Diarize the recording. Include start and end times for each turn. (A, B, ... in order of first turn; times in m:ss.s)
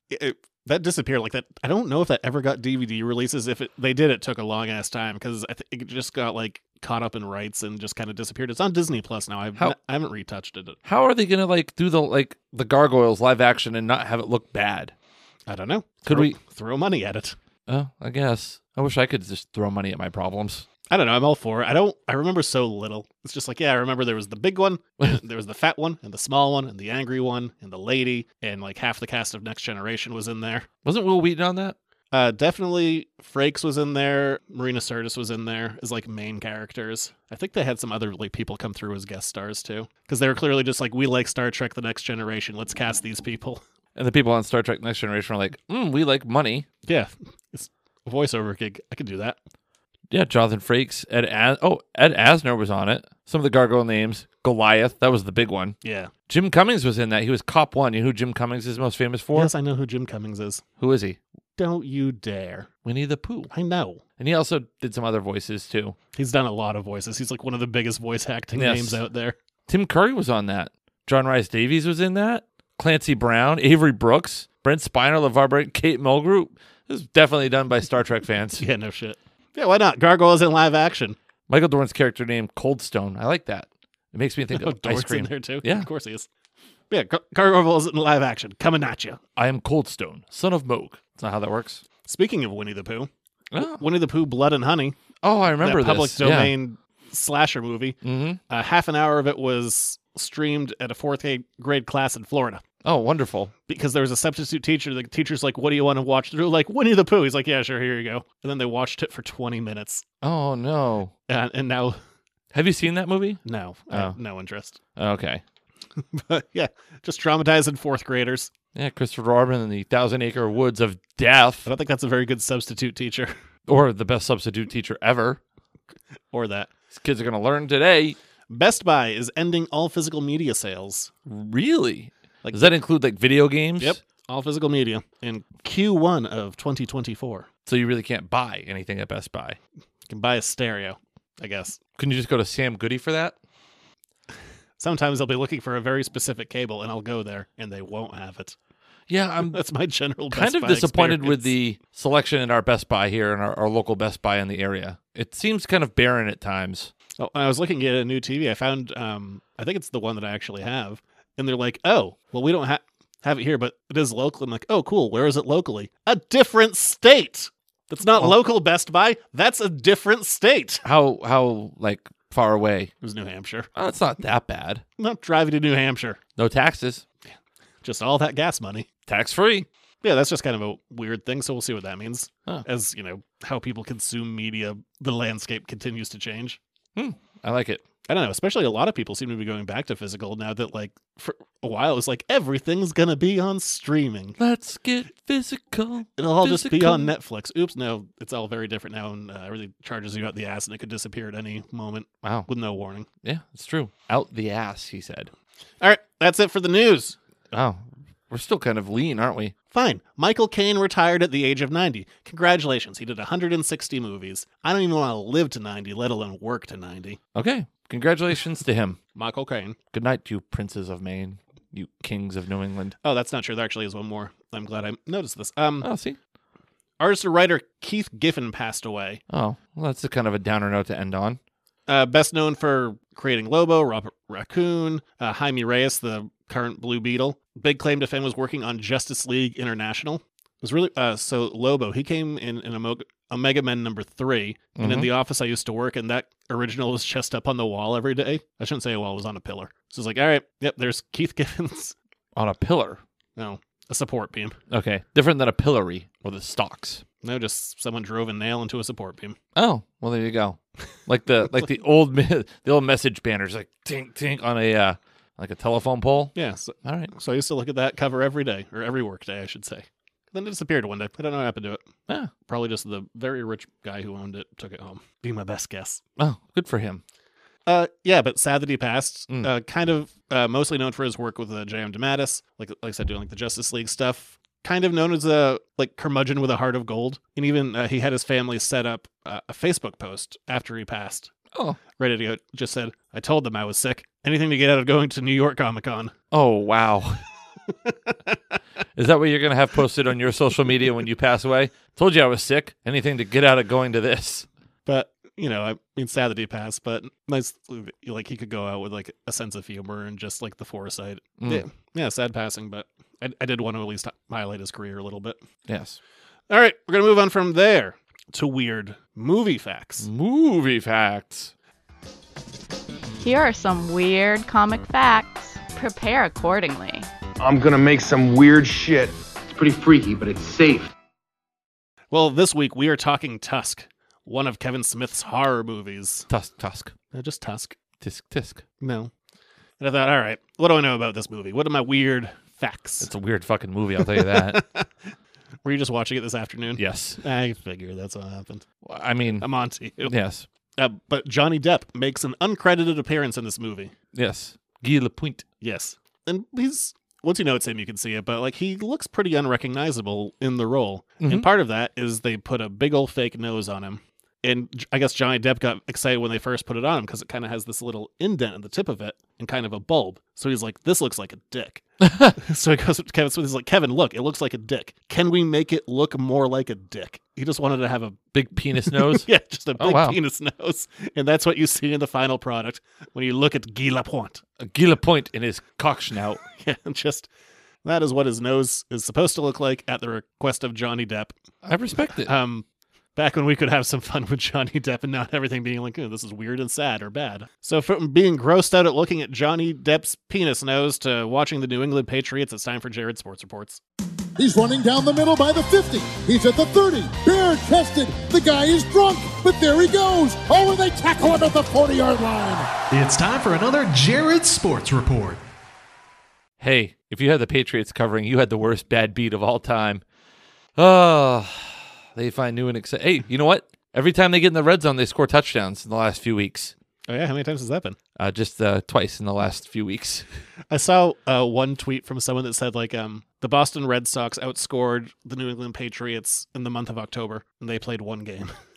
0:00.1-0:10.8 A
0:10.8-0:14.9 B
0:15.5-0:17.4 A
0:16.1-0:16.4 B
0:17.7-0:20.7 B
0:20.9-0:30.7 A
0:30.8-0:31.8 B
0:32.1-0:43.6 A
0:44.0-0:46.7 B
0:46.9-0:49.4 A
0:50.1-0:55.8 B
0:55.8-0:56.1 A
0:56.3-0:59.5 B
0:59.3-1:00.6 A
1:00.8-1:01.2 B
1:01.6-1:02.7 A
1:02.8-1:03.5 B
1:03.5-1:04.0 A
1:04.2-1:06.0 B
1:06.2-1:09.4 A
1:08.5-1:09.0 B
1:09.7-1:18.6 B
1:18.6-1:21.2 A
1:21.5-1:25.9 B
1:24.5-1:26.3 A
1:26.9-1:29.2 A
1:29.4-1:31.8 B
1:32.0-1:33.1 A
1:33.5-1:33.8 B
1:33.6-1:35.0 A
1:35.2-1:36.5 B
1:35.6-1:38.0 A
1:38.0-1:38.4 B
1:38.5-1:42.6 A
1:42.8-1:43.5 B
1:43.7-1:50.0 A
1:50.2-1:51.1 B
1:51.3-1:52.0 A
1:52.5-1:54.2 B
1:53.4-1:54.8 A
1:55.0-1:55.4 B
1:56.1-1:58.5 A
1:58.8-2:01.7 B
2:01.6-2:03.3 A
2:03.7-2:05.4 B
2:06.3-2:06.7 A
2:06.9-2:08.2 B
2:08.5-2:11.1 A
2:11.3-2:14.0 B
2:12.4-2:12.7 A
2:13.8-2:17.5 A
2:17.7-2:19.6 B
2:20.1-2:21.8 A
2:22.0-2:23.4 B
2:24.8-2:28.6 A
2:29.1-2:29.6 B
2:29.5-2:31.5 A
2:30.3-2:36.9 B
2:37.2-2:50.8 A
2:50.8-2:52.9 B
2:53.0-2:53.7 A
2:53.8-2:54.8 B
2:55.0-2:56.2 A
2:56.4-2:57.0 B
2:57.8-2:58.9 A
2:59.1-2:59.7 B
3:00.0-3:06.6 A
3:07.0-3:07.8 B
3:08.1-3:14.4 A
3:14.4-3:17.1 B
3:16.2-3:23.1 A
3:22.2-3:22.5 B
3:23.2-3:25.3 B
3:25.8-3:27.2 A
3:27.5-3:29.5 B
3:29.7-3:37.2 A
3:37.4-3:39.0 B
3:39.2-3:39.8 A
3:39.9-3:43.0 B
3:43.0-3:45.9 A
3:45.8-3:46.2 B
3:47.0-3:49.2 A
3:49.3-3:51.4 B
3:51.9-4:12.0 A
4:04.8-4:05.1 B
4:12.4-4:13.0 B
4:13.4-4:14.6 A
4:14.7-4:17.0 B
4:17.2-4:19.4 A
4:19.6-4:27.1 B
4:26.4-4:31.8 A
4:32.5-4:36.0 A
4:36.2-4:37.0 B
4:37.7-4:51.3 A
4:51.5-4:51.8 B
4:52.0-4:56.1 A
4:56.3-4:57.2 B
4:57.9-4:58.4 A
4:59.0-5:04.5 B
5:04.9-5:15.4 A
5:11.4-5:11.6 B
5:15.7-5:16.0 B
5:16.5-5:20.1 A
5:20.0-5:21.5 B
5:23.2-5:27.1 C
5:27.4-5:30.9 D
5:32.1-5:36.3 A
5:36.3-5:36.9 B
5:37.1-5:37.8 A
5:38.0-5:38.6 B
5:38.8-5:39.1 A
5:39.8-5:43.1 A
5:43.0-5:44.6 B
5:44.0-5:44.9 A
5:45.6-5:48.6 A
5:46.8-5:47.2 B
5:48.8-5:49.5 B
5:49.4-5:50.1 A
5:50.0-5:50.5 B
5:50.8-5:53.9 A
5:54.1-5:55.4 B
5:55.6-6:11.8 A
6:01.2-6:01.5 B
6:12.0-6:12.4 B
6:12.4-6:18.2 A
6:18.3-6:20.2 B
6:18.9-6:24.4 A
6:24.6-6:26.4 B
6:26.6-6:27.3 A
6:27.8-6:31.3 A
6:31.6-6:32.3 B
6:32.2-6:32.6 A
6:33.2-6:43.8 A
6:44.4-6:52.7 E
6:53.0-6:55.4 F
6:56.6-7:00.0 B
7:00.8-7:06.7 B
7:07.1-7:08.0 A
7:08.2-7:10.2 B
7:10.7-7:18.5 A